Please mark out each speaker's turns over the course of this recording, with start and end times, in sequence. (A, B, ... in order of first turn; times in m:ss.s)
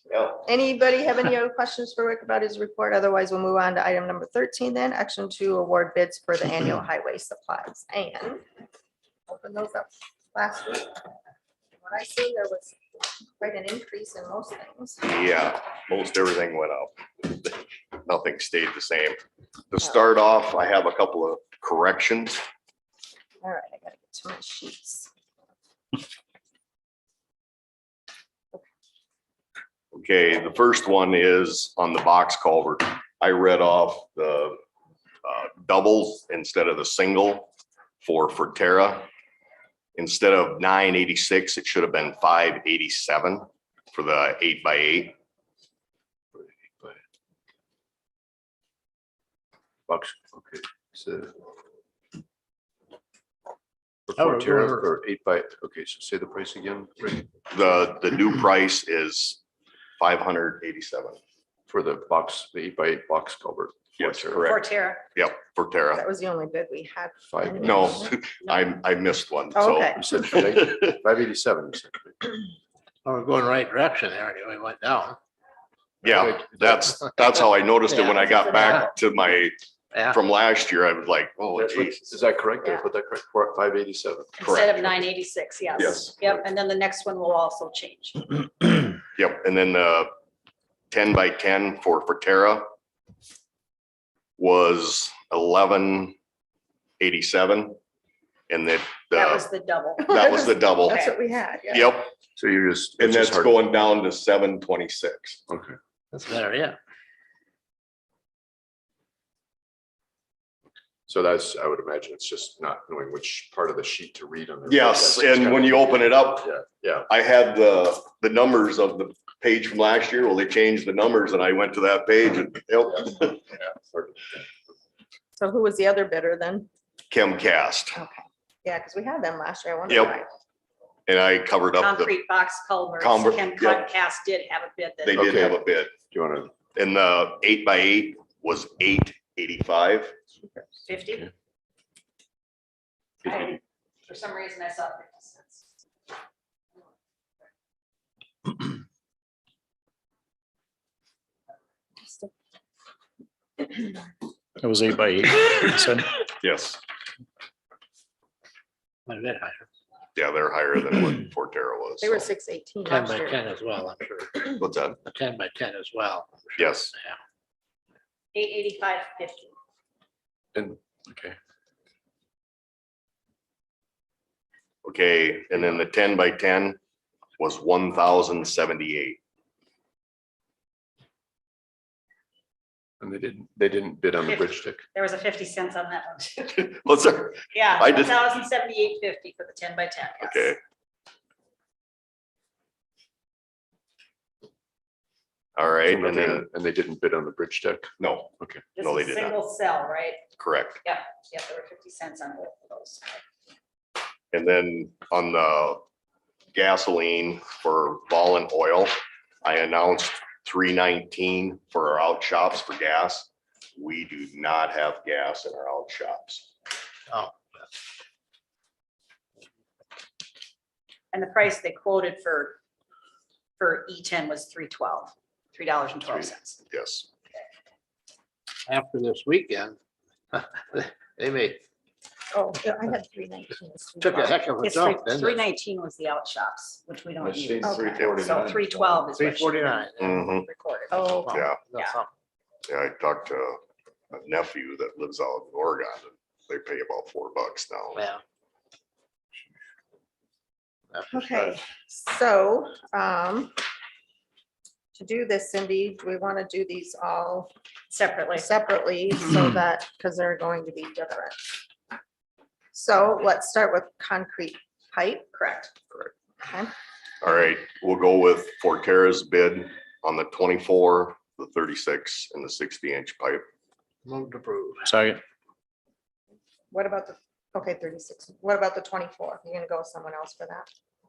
0:00.1-0:00.4 A
0:00.4-0:08.4 B
0:09.3-0:10.9 B
0:11.8-0:12.8 B
0:13.4-0:15.0 B
0:15.0-0:19.2 A
0:19.7-0:22.4 A
0:23.4-0:25.1 B
0:29.9-0:34.6 A
0:35.2-0:37.5 A
0:38.0-0:39.1 A
0:40.0-0:45.2 A
0:46.3-0:47.0 C
0:49.9-0:51.3 C
0:54.1-0:57.3 C
0:54.2-0:54.9 D
0:57.5-0:59.4 A
1:00.0-1:01.2 A
1:01.7-1:04.5 C
1:04.0-1:06.0 A
1:04.4-1:05.0 E
1:05.9-1:08.2 B
1:07.3-1:08.1 C
1:07.6-1:10.8 A
1:09.5-1:10.3 B
1:10.0-1:12.3 C
1:13.0-1:15.2 D
1:16.0-1:17.0 C
1:16.0-1:19.6 A
1:17.9-1:18.8 D
1:18.0-1:18.9 E
1:19.9-1:20.2 D
1:20.1-1:22.1 A
1:21.5-1:24.6 C
1:24.4-1:28.7 E
1:24.4-1:24.7 A
1:25.8-1:26.1 A
1:29.2-1:30.1 A
1:30.9-1:32.7 A
1:34.4-1:36.2 A
1:37.0-1:37.8 A
1:38.5-1:39.4 A
1:39.1-1:40.2 E
1:40.0-1:42.0 B
1:40.1-1:41.0 A
1:40.9-1:41.1 E
1:41.7-1:42.1 A
1:42.4-1:43.6 C
1:43.0-1:45.4 A
1:45.5-1:45.8 C
1:46.1-1:46.8 D
1:51.1-1:57.1 C
1:54.7-1:56.5 A
1:57.1-2:03.4 A
2:03.5-2:04.5 C
2:05.4-2:06.7 B
2:07.1-2:08.0 A
2:08.0-2:10.3 B
2:09.9-2:10.2 A
2:11.1-2:12.1 A
2:11.8-2:15.2 E
2:13.0-2:13.9 A
2:15.0-2:16.0 A
2:15.1-2:16.5 C
2:16.7-2:20.2 A
2:20.8-2:21.3 E
2:23.2-2:25.7 E
2:32.0-2:32.3 B
2:34.6-2:36.2 F
2:36.4-2:36.8 A
2:39.1-2:39.7 D
2:40.2-2:42.3 A
2:42.0-2:43.4 B
2:42.9-2:47.2 D
2:44.6-2:45.0 A
2:46.6-2:46.9 A
2:48.3-2:49.5 E
2:50.5-2:51.4 C
2:54.8-2:56.8 A
2:57.4-2:59.2 A
3:03.0-3:04.8 C
3:04.2-3:06.6 E
3:06.5-3:08.1 A
3:07.5-3:10.5 E
3:10.2-3:10.6 A
3:15.6-3:16.4 A
3:15.9-3:18.6 C
3:18.0-3:18.3 A
3:18.8-3:20.2 E
3:18.8-3:19.3 A
3:20.4-3:20.8 A
3:20.8-3:23.2 E
3:24.3-3:25.8 A
3:26.5-3:36.5 A
3:37.1-3:37.7 D
3:41.1-3:42.6 E
3:43.6-3:46.6 E
3:46.7-3:47.1 A
3:48.7-3:49.8 D
3:50.3-3:51.6 D
3:52.3-3:54.4 B
3:54.0-3:55.4 D
3:54.6-3:59.9 E
3:57.2-3:59.1 C
3:57.6-3:58.0 B
3:58.0-3:58.2 A
3:59.1-4:02.1 D
4:00.0-4:00.5 A
4:00.4-4:01.4 B
4:01.1-4:01.9 E
4:02.7-4:03.6 A
4:04.1-4:08.0 A
4:08.0-4:08.2 D
4:10.9-4:11.6 D
4:11.1-4:13.5 B
4:15.0-4:17.5 B
4:17.9-4:18.5 E
4:18.4-4:21.4 B
4:22.7-4:25.7 B
4:26.4-4:26.7 B
4:27.2-4:33.4 A
4:34.0-4:34.9 D
4:34.9-4:35.2 F
4:36.7-4:40.7 B